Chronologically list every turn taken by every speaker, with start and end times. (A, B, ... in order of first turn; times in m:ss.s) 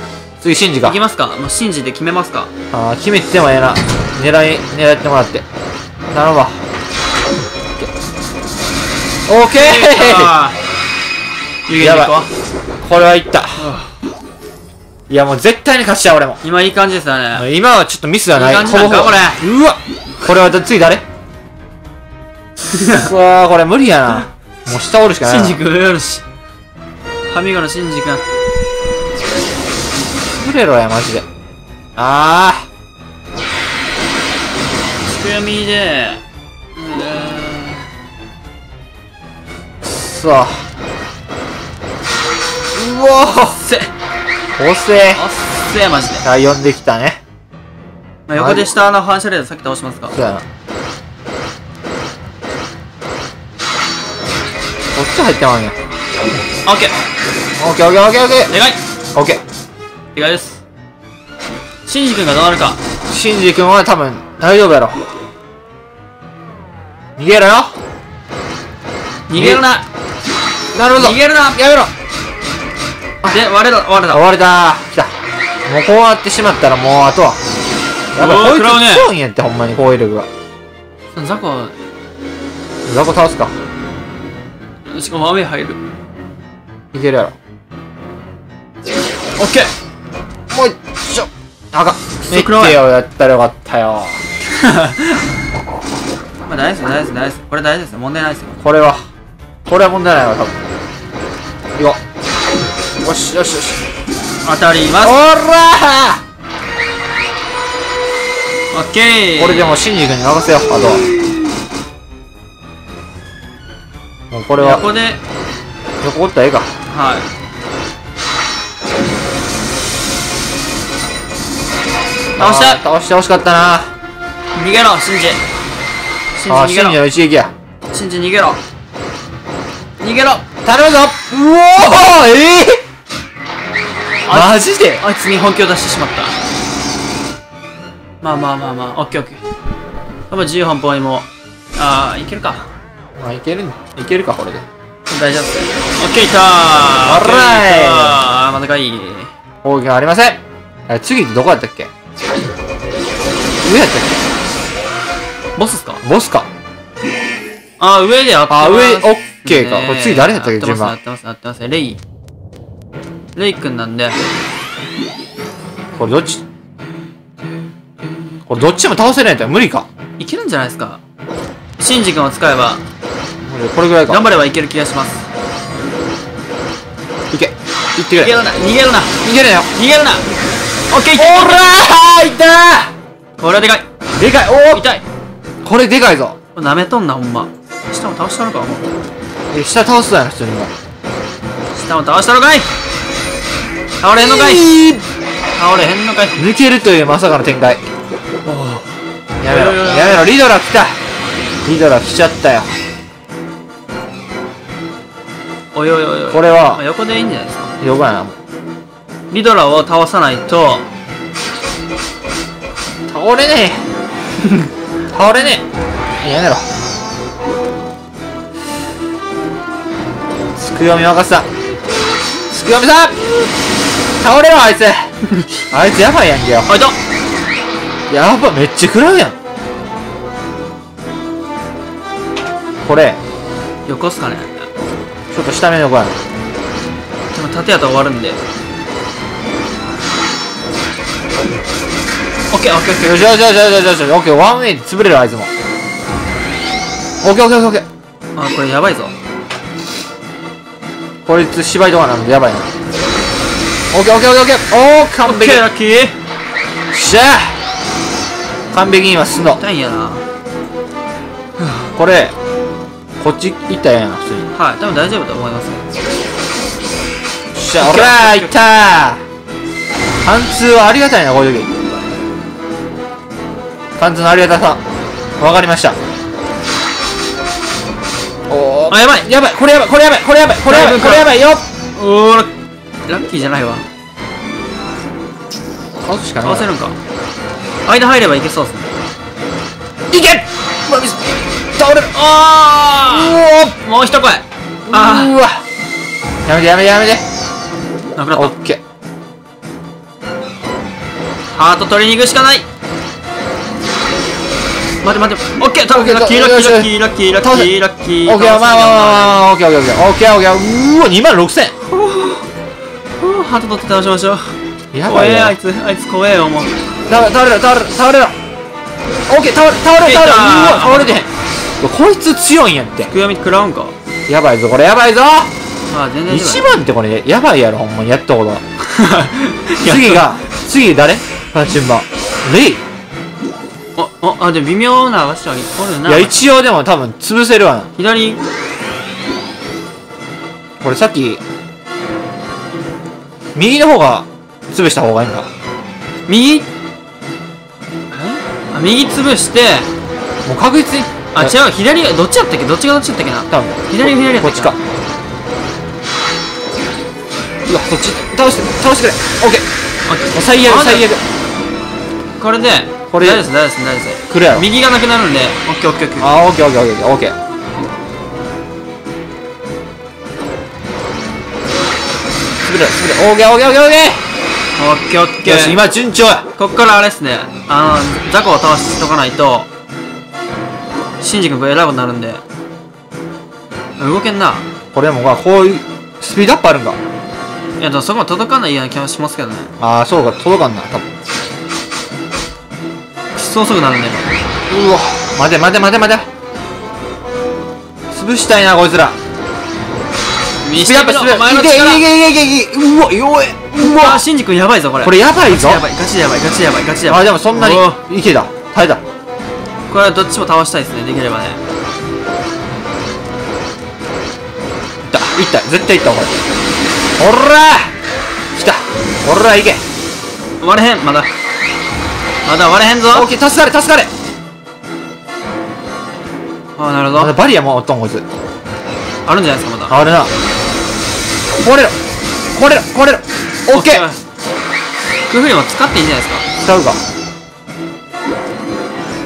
0:00.4-0:01.0 A
0:00.8-0:02.5 B
0:02.7-0:05.4 A
0:06.1-0:06.6 A
0:09.3-0:10.3 A
0:09.5-0:10.6 B
0:11.7-0:12.3 B
0:11.8-0:12.2 A
0:12.8-0:13.7 A
0:13.6-0:14.0 B
0:15.1-0:16.4 A
0:16.4-0:17.4 B
0:17.4-0:21.0 A
0:18.4-0:19.4 B
0:22.7-0:23.1 B
0:22.9-0:25.6 A
0:25.2-0:26.2 B
0:27.3-0:28.2 B
0:30.4-0:31.2 A
0:32.0-0:32.7 A
0:35.1-0:36.2 B
0:36.8-0:37.9 B
0:39.8-0:40.6 A
0:42.7-0:43.6 A
0:43.6-0:43.9 B
0:44.6-0:45.2 A
0:45.1-0:46.3 B
0:46.2-0:47.2 A
0:48.3-0:50.2 B
0:48.4-0:48.7 A
0:50.1-0:50.4 A
0:55.0-0:55.8 A
0:56.6-0:56.9 B
0:57.6-0:58.5 A
0:58.5-0:58.8 B
0:59.2-0:59.4 A
1:00.2-1:00.6 B
1:01.9-1:02.8 B
1:03.1-1:05.3 A
1:07.2-1:07.7 A
1:09.3-1:09.9 B
1:09.4-1:09.6 A
1:10.7-1:11.9 A
1:11.0-1:11.6 B
1:13.3-1:14.2 B
1:14.1-1:15.1 A
1:15.7-1:17.4 A
1:18.1-1:20.3 A
1:18.2-1:19.1 B
1:21.2-1:21.8 B
1:22.9-1:23.6 A
1:24.9-1:25.8 B
1:26.9-1:27.4 A
1:29.4-1:29.7 B
1:30.5-1:34.2 A
1:32.3-1:32.8 B
1:34.5-1:35.2 B
1:36.5-1:38.6 B
1:38.6-1:39.0 A
1:39.7-1:40.6 A
1:43.0-1:43.8 A
1:44.4-1:45.2 B
1:45.0-1:46.2 A
1:48.7-1:49.8 B
1:49.4-1:51.0 A
1:54.3-1:54.8 A
1:54.6-1:55.2 B
1:56.0-1:56.7 A
1:56.9-1:57.3 B
2:02.4-2:02.8 B
2:02.4-2:03.9 A
2:04.6-2:05.4 B
2:06.4-2:07.0 B
2:06.5-2:07.5 A
2:07.9-2:08.6 B
2:10.0-2:10.4 B
2:10.6-2:12.8 A
2:14.2-2:16.4 B
2:14.3-2:15.0 A
2:18.2-2:19.4 B
2:20.3-2:22.7 B
2:23.2-2:24.6 A
2:25.1-2:29.3 B
2:27.0-2:28.2 A
2:29.6-2:31.9 A
2:33.6-2:34.2 A
2:35.6-2:36.0 B
2:36.0-2:36.5 A
2:37.8-2:42.0 B
2:38.5-2:41.0 A
2:43.4-2:44.2 B
2:46.0-2:46.4 A
2:48.5-2:49.9 A
2:50.2-2:51.0 B
2:51.8-2:52.8 B
2:53.5-2:54.2 A
2:54.1-2:55.2 B
2:57.3-2:58.3 A
2:58.2-3:00.3 B
2:59.2-2:59.7 A
3:00.9-3:01.8 B
3:01.1-3:02.9 A
3:03.4-3:03.9 B
3:04.2-3:04.8 A
3:04.7-3:05.0 B
3:05.6-3:06.4 A
3:06.6-3:08.9 B
3:09.5-3:10.7 A
3:11.7-3:12.7 B
3:14.0-3:14.7 B
3:14.2-3:15.0 A
3:15.6-3:16.4 B
3:16.4-3:17.8 A
3:18.4-3:18.9 B
3:19.4-3:21.0 A
3:19.4-3:20.3 B
3:21.6-3:22.7 A
3:25.7-3:27.7 B
3:26.3-3:26.8 A
3:27.8-3:28.4 A
3:29.3-3:30.9 B
3:33.1-3:33.8 A
3:35.1-3:35.6 A
3:36.2-3:36.7 A
3:40.6-3:41.5 A
3:42.5-3:43.2 A
3:44.2-3:45.1 A
3:45.7-3:46.7 A
3:46.7-3:47.0 B
3:48.1-3:49.4 A
3:52.8-3:53.2 A
3:53.9-3:54.7 B
3:55.3-3:56.2 A
3:57.3-3:58.4 B
4:02.5-4:03.3 B
4:03.0-4:05.5 A
4:07.2-4:07.8 A
4:08.4-4:09.2 B
4:11.3-4:12.7 A
4:13.9-4:15.6 A
4:15.2-4:16.2 B
4:16.9-4:17.6 A
4:18.7-4:19.6 A
4:19.6-4:20.2 B
4:22.0-4:22.3 A
4:23.2-4:24.5 A
4:24.5-4:25.9 B
4:27.6-4:29.2 A
4:27.8-4:28.5 B
4:30.2-4:31.7 A
4:34.0-4:34.8 A
4:35.4-4:36.0 A
4:38.5-4:41.6 A
4:38.9-4:39.2 B
4:40.7-4:41.3 B
4:42.0-4:42.5 B
4:43.1-4:43.8 B
4:46.0-4:46.7 A
4:46.4-4:47.0 B
4:47.9-4:48.9 B
4:50.1-4:52.2 A
4:52.1-4:55.4 B
4:53.0-4:53.8 A
4:54.9-4:55.6 A
4:56.5-4:57.2 A
4:58.2-4:58.6 B
4:58.3-4:58.8 A
5:01.5-5:02.6 B
5:05.0-5:09.4 B
5:05.9-5:07.7 A
5:08.2-5:11.7 A
5:11.9-5:12.4 B
5:13.2-5:14.5 B
5:14.9-5:15.6 A
5:15.1-5:16.8 B
5:17.1-5:18.4 A
5:19.3-5:21.3 A
5:20.0-5:21.2 B
5:21.8-5:23.1 A
5:23.1-5:23.9 B
5:24.3-5:25.5 A
5:25.9-5:26.7 B
5:26.3-5:28.6 A
5:28.8-5:30.3 B
5:29.8-5:32.8 A
5:34.0-5:36.4 B
5:36.1-5:37.9 A
5:38.0-5:38.4 B
5:40.8-5:41.4 A
5:43.6-5:45.5 A
5:46.3-5:46.7 B
5:48.1-5:49.9 B
5:50.5-5:51.5 A
5:51.3-5:54.8 B
5:53.5-5:54.8 A
5:57.7-5:59.6 A
6:00.1-6:01.1 B
6:00.3-6:01.2 A
6:02.4-6:06.3 B
6:03.1-6:03.5 A
6:04.3-6:04.7 A
6:06.2-6:07.4 A
6:12.6-6:14.2 A
6:14.8-6:15.8 B
6:15.4-6:16.5 A
6:16.6-6:19.7 B
6:21.2-6:22.4 B
6:24.0-6:24.7 B
6:24.9-6:27.0 A
6:27.8-6:29.7 B
6:29.8-6:31.1 A
6:33.4-6:34.4 B
6:34.7-6:36.3 A
6:38.1-6:39.2 A
6:40.6-6:42.0 B
6:40.8-6:44.2 A
6:43.9-6:48.0 B
6:45.0-6:45.8 A
6:47.1-6:49.0 A
6:49.9-6:51.6 B
6:55.0-6:56.4 A
6:57.2-6:57.9 A
6:58.6-6:59.8 A
7:00.6-7:01.3 B
7:02.4-7:03.3 B
7:03.1-7:04.1 A
7:06.8-7:07.4 B
7:07.2-7:08.2 A
7:09.3-7:10.0 B
7:09.9-7:10.3 A
7:11.6-7:12.0 A
7:12.5-7:14.1 A
7:13.7-7:14.2 B
7:15.3-7:16.5 B
7:16.6-7:17.0 A